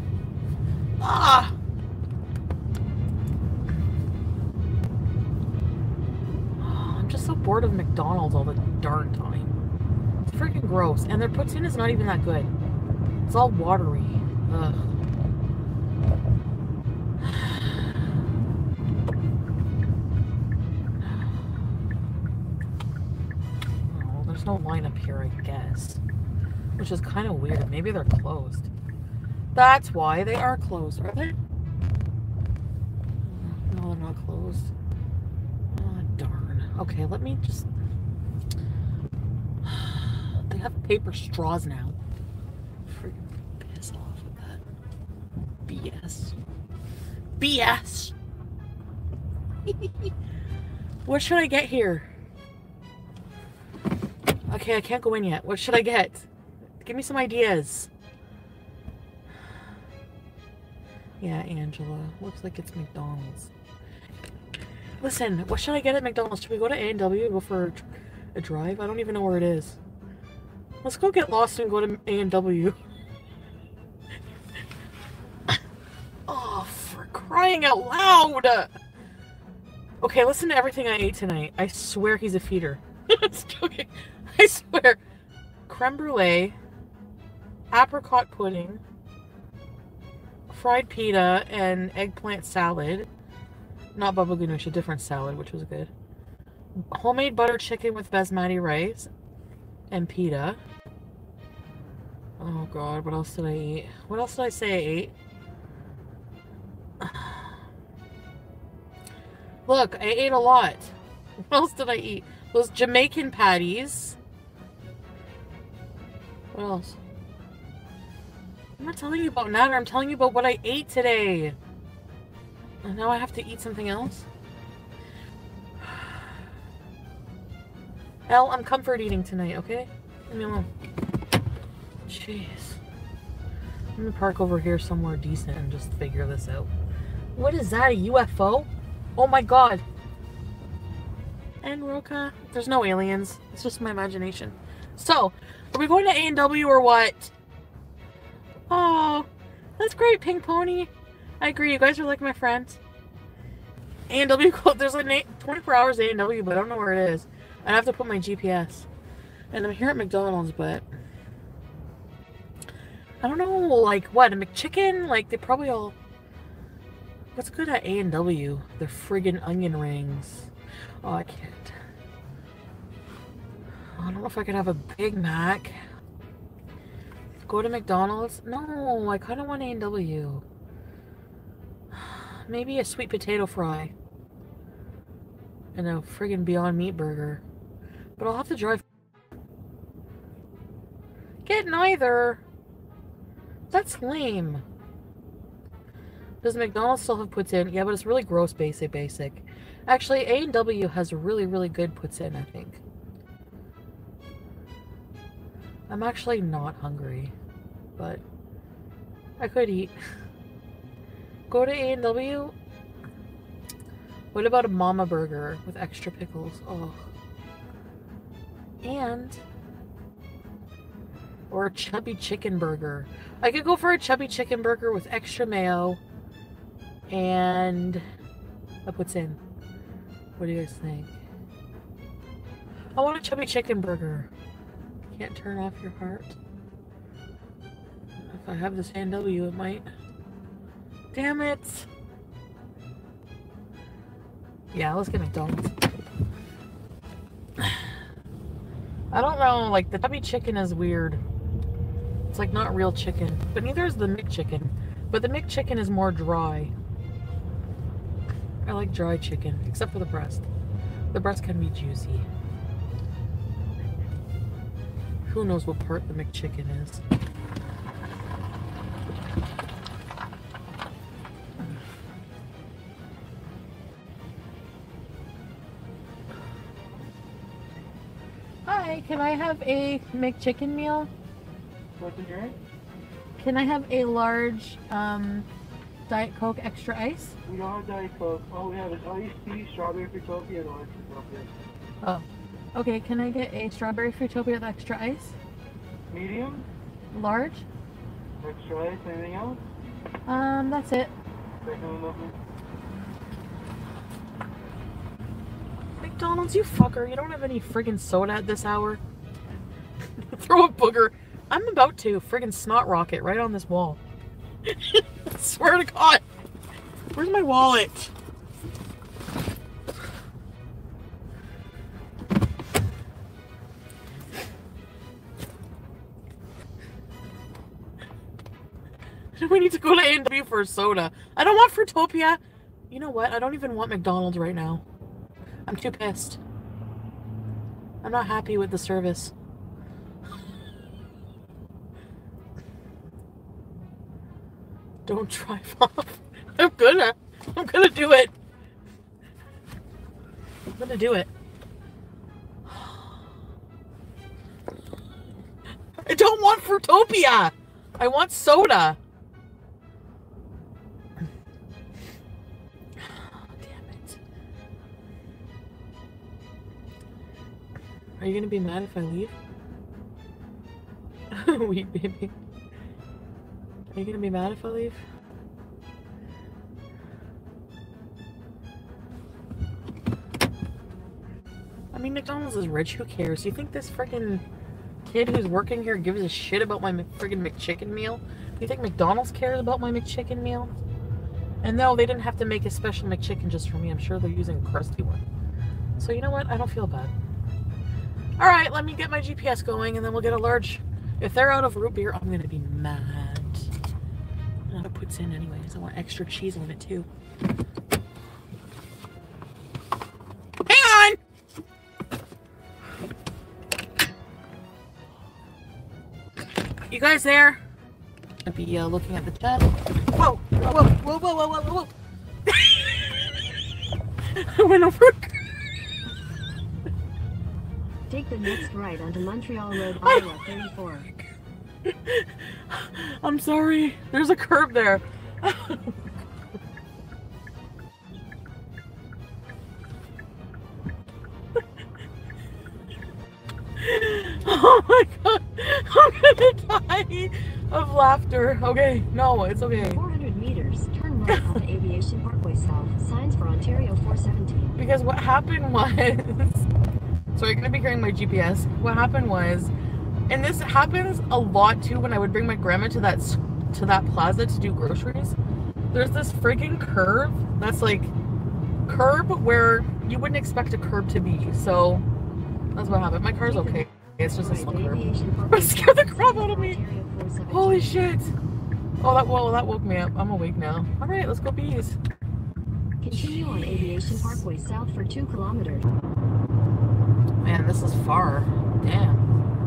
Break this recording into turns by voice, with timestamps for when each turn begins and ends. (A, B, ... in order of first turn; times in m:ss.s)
0:01.0-0:01.6 A
0:06.6-0:09.5 A
0:10.2-0:12.5 A
0:13.3-0:14.8 A
0:17.2-0:17.6 A
0:23.9-0:26.0 A
0:26.8-0:28.7 A
0:29.5-0:31.3 A
0:33.2-0:34.7 A
0:35.7-0:37.7 A
0:39.6-0:42.0 A
0:42.9-0:44.6 A
0:45.7-0:46.4 A
0:47.4-0:48.2 A
0:49.7-0:50.1 A
0:51.0-0:52.1 A
0:54.5-0:56.3 A
0:56.8-0:57.9 A
1:01.2-1:03.5 A
1:05.0-1:09.8 A
1:10.8-1:12.8 A
1:16.3-1:18.7 A
1:20.0-1:25.0 A
1:25.7-1:26.6 A
1:27.7-1:28.8 A
1:30.5-1:33.1 A
1:33.9-1:35.9 A
1:36.8-1:39.1 A
1:39.9-1:40.6 A
1:42.4-1:45.1 A
1:47.0-1:47.5 A
1:49.7-1:51.0 A
1:51.5-1:54.2 A
1:56.5-1:57.0 A
1:58.8-2:01.6 A
2:02.8-2:04.3 A
2:08.3-2:10.7 A
2:12.1-2:12.8 A
2:14.0-2:16.7 A
2:17.4-2:19.8 A
2:21.6-2:27.3 A
2:28.7-2:32.8 A
2:34.1-2:38.9 A
2:39.5-2:40.9 A
2:43.2-2:46.0 A
2:47.3-2:50.5 A
2:51.0-2:51.8 A
2:54.0-2:55.8 A
2:57.5-3:00.4 A
3:01.9-3:03.9 A
3:05.8-3:07.4 A
3:08.2-3:08.8 A
3:11.5-3:12.4 A
3:13.7-3:14.6 A
3:16.4-3:22.8 A
3:25.9-3:27.3 A
3:28.0-3:28.2 A
3:29.4-3:30.0 A
3:31.5-3:32.5 A
3:34.3-3:37.1 A
3:38.8-3:39.4 A
3:41.5-3:46.0 A
3:47.1-3:48.0 A
3:48.8-3:49.4 A
3:50.4-3:51.2 A
3:53.0-3:54.3 A
3:55.1-3:56.4 A
3:58.2-3:59.9 A
4:01.1-4:01.9 A
4:04.7-4:05.7 A
4:09.1-4:11.2 A
4:12.3-4:16.7 A
4:18.6-4:20.5 A
4:21.1-4:22.3 A
4:25.3-4:27.0 A
4:38.7-4:41.1 A
4:42.0-4:42.6 B
4:43.4-4:45.5 A
4:46.1-4:47.4 A
4:47.5-4:51.5 B
4:52.0-4:55.4 A
4:56.1-4:56.7 B
4:57.1-4:57.7 A
4:58.4-4:59.6 B
5:00.3-5:01.1 A
5:01.6-5:02.3 B
5:06.0-5:09.0 A
5:10.2-5:14.0 A
5:14.7-5:16.2 A
5:17.1-5:18.1 A
5:29.4-5:34.8 A
5:35.7-5:36.4 A
5:38.0-5:39.3 A
5:45.1-5:48.3 A
5:50.8-5:51.3 A
5:56.0-5:59.0 A
6:03.0-6:04.2 A
6:08.2-6:09.4 A
6:11.3-6:12.3 A
6:13.9-6:15.0 A
6:21.9-6:24.4 A
6:25.0-6:30.8 A
6:31.6-6:35.2 A
6:36.0-6:37.1 A
6:38.4-6:43.7 A
6:44.7-6:47.1 A
6:50.6-6:51.2 A
6:56.9-6:57.6 A
6:58.4-7:01.9 A
7:02.5-7:03.4 A
7:04.3-7:05.6 A
7:08.1-7:11.1 C
7:10.0-7:10.7 A
7:11.9-7:16.0 A
7:23.8-7:30.0 A
7:29.6-7:34.8 C
7:31.3-7:31.6 A
7:34.8-7:36.7 A
7:37.4-7:39.7 A
7:40.3-7:45.4 A
7:45.9-7:48.2 A
7:48.9-7:52.0 A
7:52.8-7:56.8 A
7:53.4-7:58.0 C
7:57.5-7:58.4 A
7:59.0-8:02.0 A
8:03.0-8:05.9 C
8:03.1-8:04.4 A
8:07.4-8:09.3 A